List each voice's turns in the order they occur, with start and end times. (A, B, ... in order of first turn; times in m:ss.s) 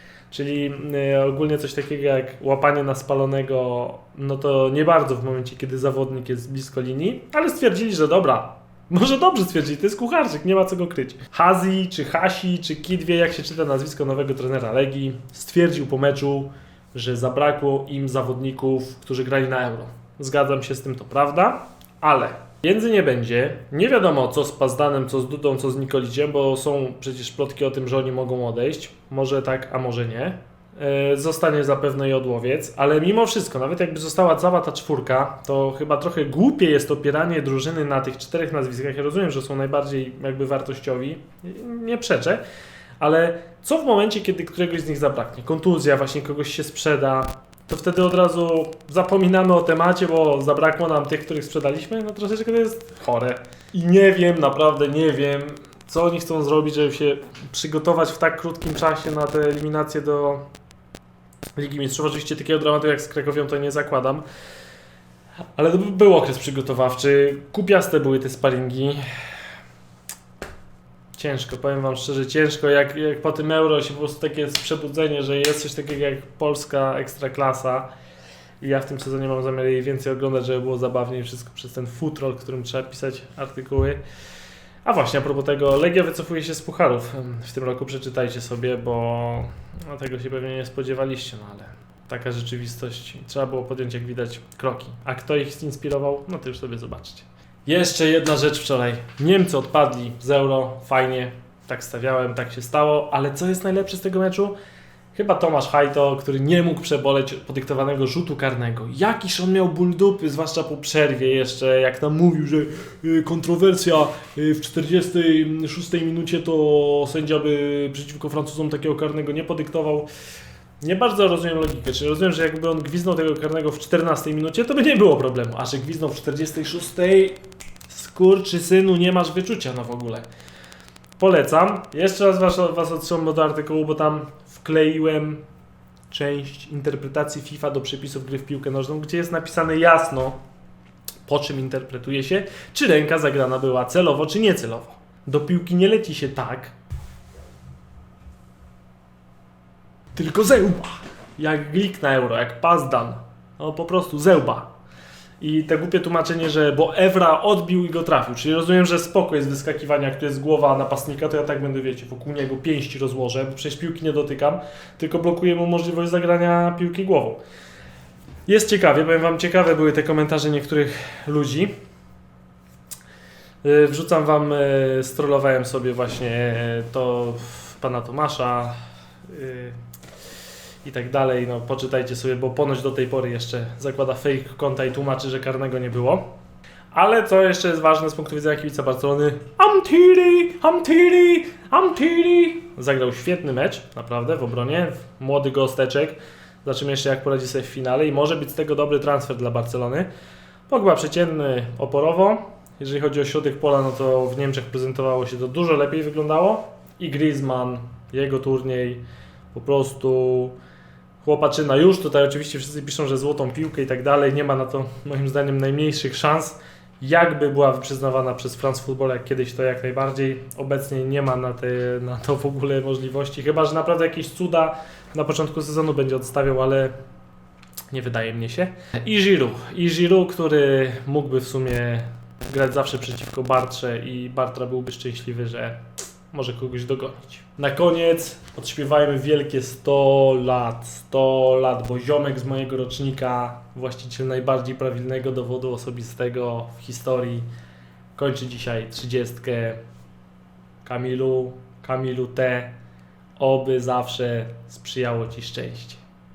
0:00.3-0:42.4 A
0:43.0-1:00.4 A
1:01.6-1:04.2 A
1:05.6-1:09.0 A
1:11.2-1:17.9 A
1:18.6-1:24.0 A
1:24.8-1:44.6 A
1:45.1-2:00.1 A
2:00.8-2:10.3 A
2:11.2-2:15.4 A
2:16.1-2:20.4 A
2:21.3-2:26.8 A
2:30.2-2:34.7 A
2:35.4-2:47.4 A
2:48.5-2:51.7 A
2:53.6-2:58.7 A
2:59.3-2:59.8 A
3:00.8-3:06.3 A
3:06.9-3:20.1 A
3:20.7-3:30.6 A
3:31.2-3:46.9 A
3:47.9-4:07.5 A
4:08.2-4:09.8 A
4:10.8-4:12.8 A
4:13.4-4:16.0 A